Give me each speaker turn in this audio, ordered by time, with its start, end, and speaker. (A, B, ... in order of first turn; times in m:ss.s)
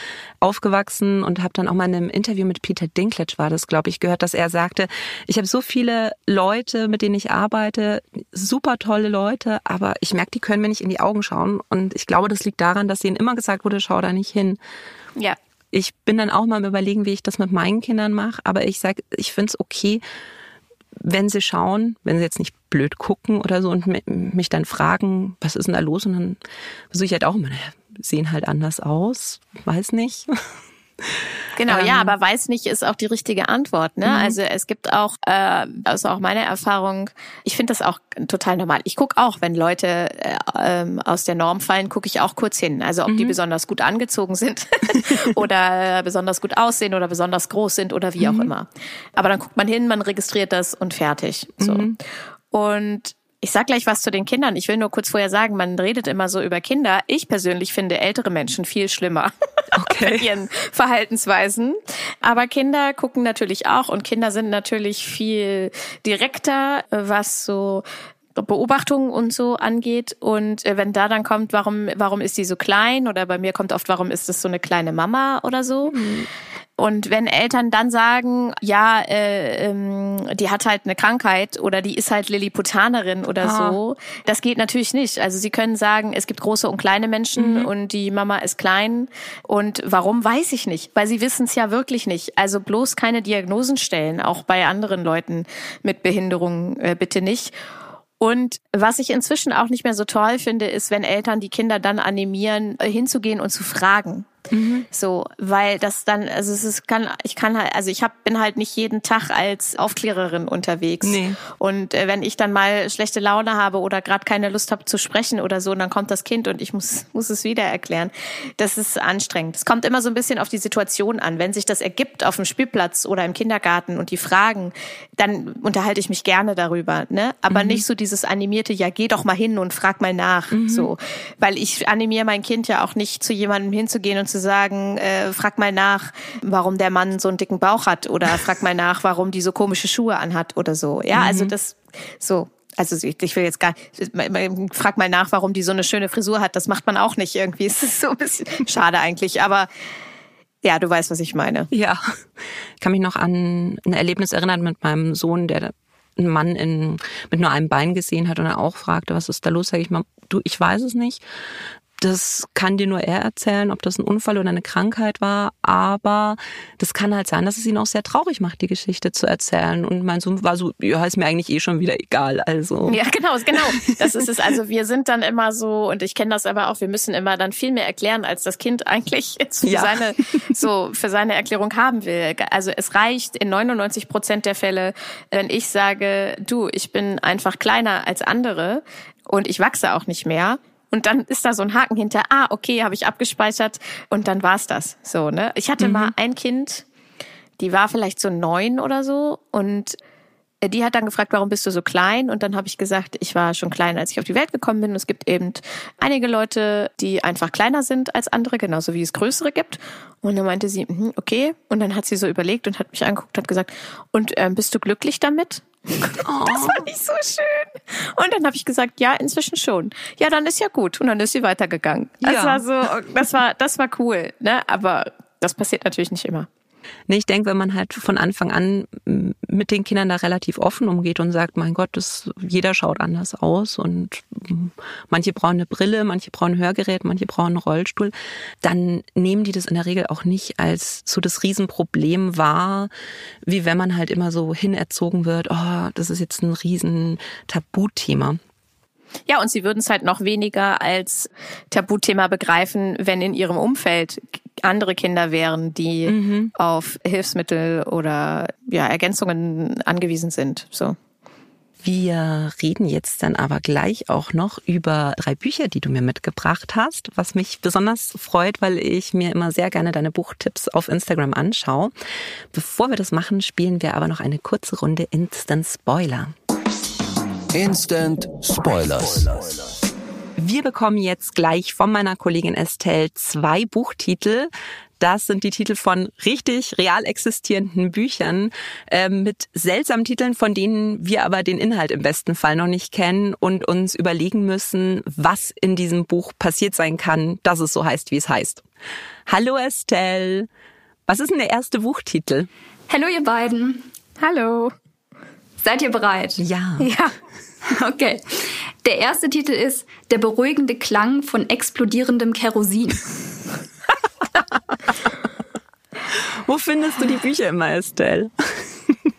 0:00.4-0:14.6 A
0:15.7-0:20.0 A
0:21.0-0:26.4 A
0:26.9-0:30.4 A
0:31.6-0:51.9 B
0:31.7-0:32.1 A
0:34.1-0:34.4 A
0:43.1-0:43.3 A
0:48.2-0:48.5 A
0:51.6-0:52.0 A
0:52.5-1:07.8 B
0:59.7-1:00.2 A
1:08.3-1:16.0 B
1:15.9-1:16.3 A
1:16.8-1:37.5 B
1:23.4-1:23.8 A
1:27.4-1:27.7 A
1:38.2-1:44.3 B
1:44.5-1:44.9 A
1:44.9-2:29.7 B
1:51.0-1:51.4 A
2:07.5-2:07.8 A
2:10.5-2:10.9 A
2:21.1-2:21.5 A
2:30.6-2:31.7 B
2:31.7-2:32.0 A
2:32.8-2:41.2 A
2:42.0-2:53.0 A
2:52.9-3:16.8 B
2:59.6-3:00.5 A
3:15.8-3:16.1 A
3:17.6-3:20.0 B
3:20.6-3:46.5 B
3:36.2-3:36.8 A
3:42.2-3:42.6 A
3:47.1-4:02.9 A
4:03.4-4:08.4 A
4:09.3-4:21.0 B
4:16.1-4:16.5 A
4:21.8-4:31.9 A
4:32.5-4:36.3 A
4:37.5-4:39.7 C
4:40.4-4:58.6 A
4:59.3-5:00.5 A
5:01.1-5:02.5 A
5:02.9-5:03.8 D
5:04.2-5:04.7 B
5:05.6-5:06.4 D
5:06.4-5:06.9 A
5:06.8-5:07.1 B
5:07.6-5:13.3 D
5:16.1-5:18.9 A